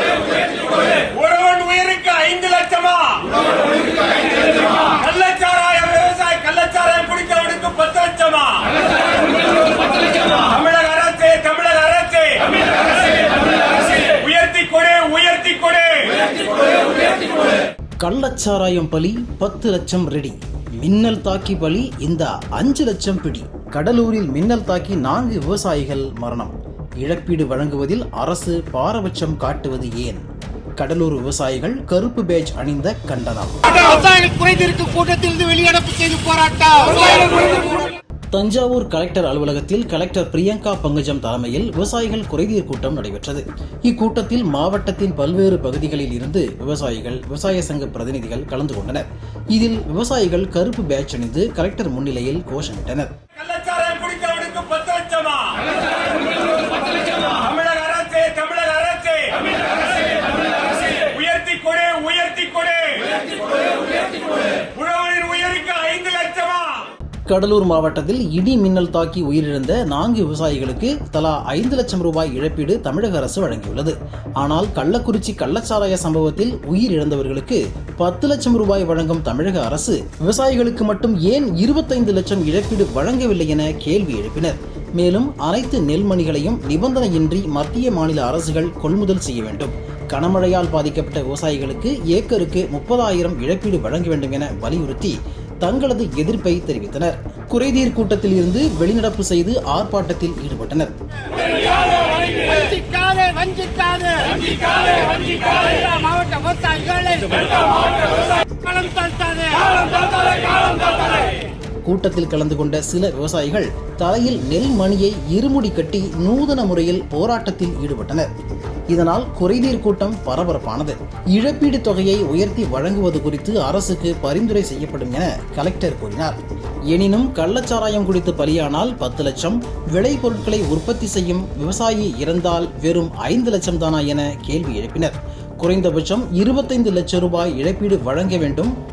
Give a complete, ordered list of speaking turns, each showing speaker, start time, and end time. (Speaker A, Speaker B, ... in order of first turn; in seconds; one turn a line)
Speaker A: 0.7-3.4
Speaker A: 4.8-16.4
Speaker B: 18.0-30.2
Speaker B: 30.8-33.8
Speaker C: 33.8-37.5
Speaker B: 38.3-53.1
Speaker A: 53.3-66.9
Speaker B: 67.3-100.9
Speaker C: 102.3-105.1
Speaker A: 105.2-105.8
Speaker C: 105.8-107.3
Speaker A: 107.3-107.9
Speaker C: 108.5-109.8
Speaker B: 111.8-118.3
Speaker B: 118.9-126.4
Speaker B: 126.9-138.7